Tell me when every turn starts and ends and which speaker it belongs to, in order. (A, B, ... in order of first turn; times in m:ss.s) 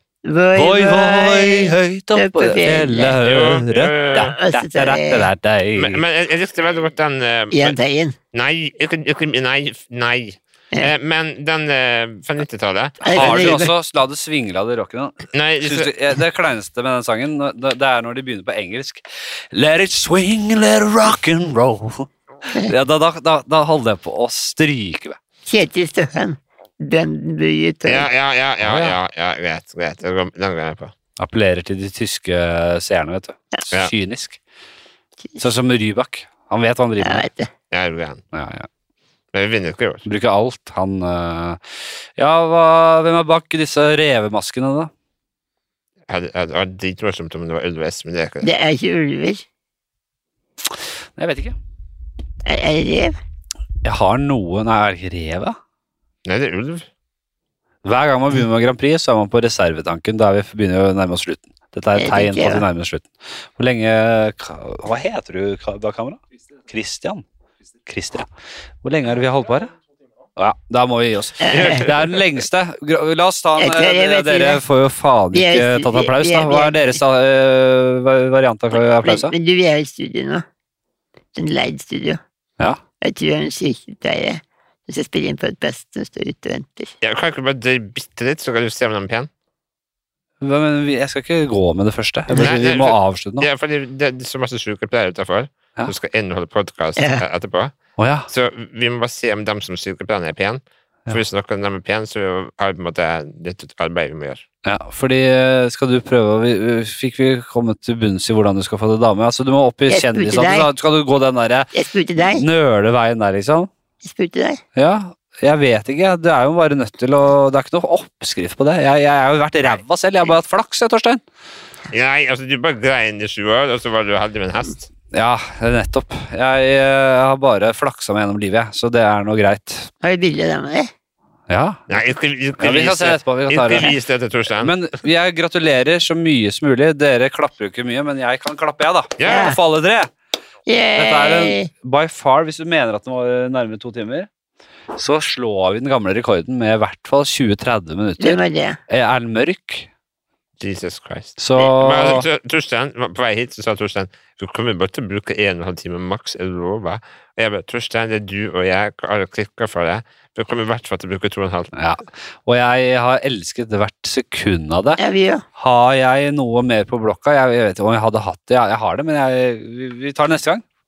0:00.2-0:03.2 A
0:00.5-0:06.0 B
0:03.2-0:04.4 C
0:04.1-0:05.3 A
0:05.8-0:07.8 C
0:07.5-0:08.2 A
0:08.3-0:13.6 C
0:13.0-0:13.7 A
0:13.1-0:25.2 B
0:15.3-0:15.9 C
0:25.4-0:28.1 A
0:27.8-0:30.9 C
0:28.6-0:29.0 B
0:31.2-0:34.4 B
0:35.4-0:37.2 B
0:37.0-0:37.5 A
0:37.7-0:38.2 C
0:38.3-0:38.7 B
0:39.3-0:40.0 C
0:40.0-0:41.6 B
0:42.2-0:44.9 B
0:46.1-0:48.5 C
0:48.4-0:49.4 A
0:50.7-0:51.6 B
0:52.4-0:53.2 A
0:53.8-0:55.6 B
0:56.2-0:56.9 C
0:57.8-1:07.2 B
1:02.0-1:02.6 A
1:07.8-1:08.3 B
1:08.8-1:09.7 B
1:10.4-1:19.3 B
1:11.4-1:11.9 A
1:11.6-1:11.9 C
1:13.6-1:14.6 A
1:15.3-1:17.0 A
1:18.7-1:20.4 A
1:21.3-1:22.2 A
1:23.0-1:26.9 A
1:27.0-1:29.3 C
1:30.4-1:33.5 B
1:32.3-1:32.5 A
1:32.3-1:37.7 C
1:37.0-1:37.2 A
1:38.0-1:38.3 B
1:38.3-1:44.4 C
1:44.6-1:53.7 B
1:49.9-1:50.7 A
1:51.7-1:52.4 A
1:54.0-1:54.6 A
1:54.8-2:01.2 B
2:01.9-2:04.9 C
2:05.1-2:09.9 B
2:10.0-2:10.9 A
2:11.5-2:11.8 B
2:11.9-2:14.7 C
2:12.6-2:13.9 B
2:14.6-2:20.1 B
2:19.2-2:19.5 C
2:19.2-2:19.6 A
2:20.6-2:21.7 A
2:20.9-2:24.3 B
2:25.0-2:29.9 B
2:28.2-2:28.8 A
2:30.6-2:41.7 C
2:31.4-2:32.2 B
2:41.7-2:45.0 B
2:45.0-2:45.4 A
2:45.6-2:50.6 B